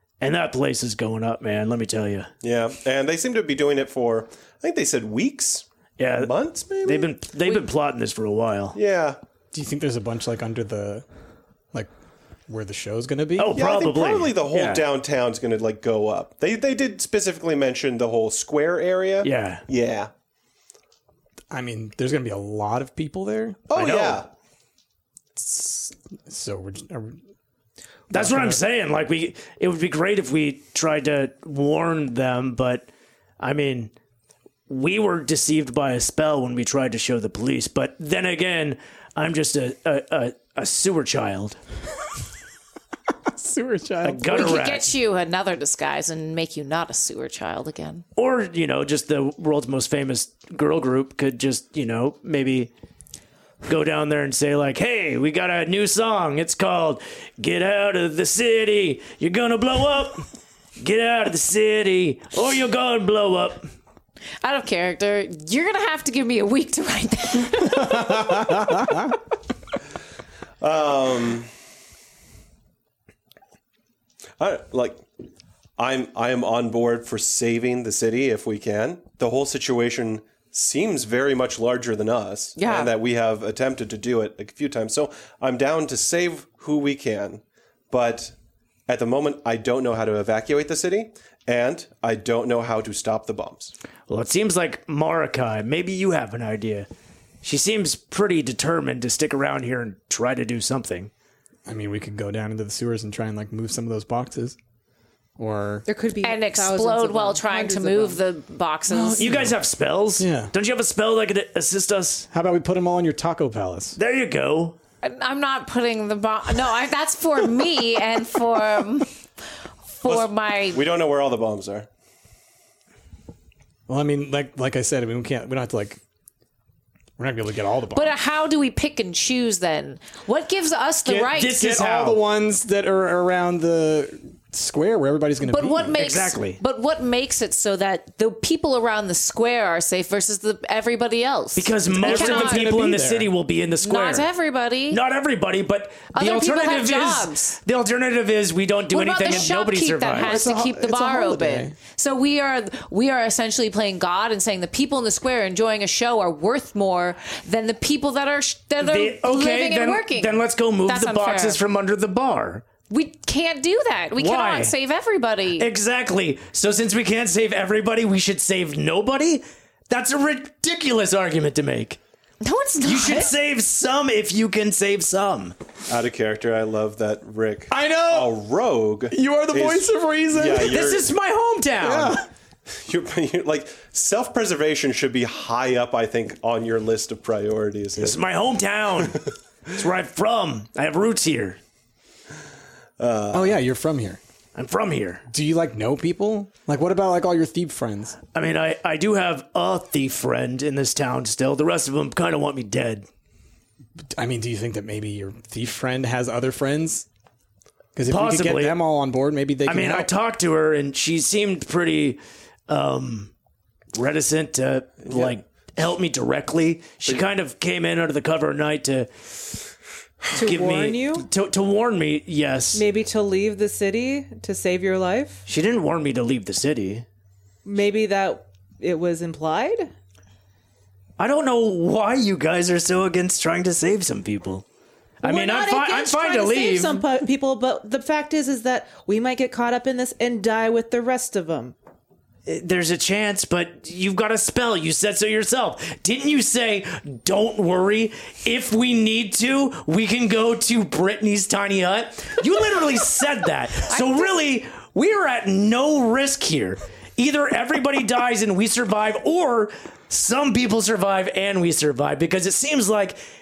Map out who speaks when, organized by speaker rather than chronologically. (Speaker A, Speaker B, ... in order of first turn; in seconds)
Speaker A: 0.2-2.3, 6.0-8.8, 13.4-14.9, 19.2-19.6, 23.8-24.2, 28.1-32.9, 33.4-33.9, 34.7-41.6, 44.0-44.9, 48.1-52.7, 53.6-60.2, 60.8-63.7, 94.1-96.9, 97.4-101.1, 109.2-112.3, 114.0-114.8, 131.2-132.2, 135.9-136.6, 141.6-144.3, 144.9-150.4, 158.8-162.6, 164.2-164.7, 165.6-172.0, 172.8-175.5, 180.7-182.2, 188.0-191.6, 194.5-195.2, 198.3-203.1, 208.1-208.8, 209.7-213.3, 213.9-219.1, 220.3-222.8, 225.5-227.0, 231.2-234.6, 235.2-237.1, 242.4-263.2
Speaker B: 2.4-5.6, 6.2-7.1, 8.7-9.2, 13.5-20.1, 23.7-24.3, 70.6-71.5, 74.4-75.1, 75.8-88.3, 88.9-93.7, 120.0-121.9, 175.9-181.1, 182.7-188.2, 193.0-193.6, 215.1-215.3
Speaker C: 9.5-11.0, 12.5-13.6, 21.5-23.7, 25.4-27.2, 28.1-28.6, 43.3-44.7, 67.8-69.1, 101.7-104.5, 105.4-105.9, 108.9-109.6, 110.2-110.5, 112.3-114.0, 123.9-126.0, 127.2-128.1, 131.1-136.0, 141.9-143.3, 150.1-151.7, 177.7-178.3, 179.1-180.8, 181.8-182.2, 193.3-194.2, 195.3-198.2, 204.1-207.1, 207.9-210.1
Speaker D: 44.3-48.0, 64.4-68.4, 82.5-82.9, 106.2-109.3, 115.0-119.1, 119.9-120.8, 127.9-131.6, 135.4-142.7, 143.8-145.0, 146.1-147.6, 148.9-161.6, 162.9-165.7, 172.4-173.3, 253.9-254.3
Speaker E: 105.8-108.2, 220.3-221.3, 222.7-225.4, 227.6-229.9, 235.2-241.7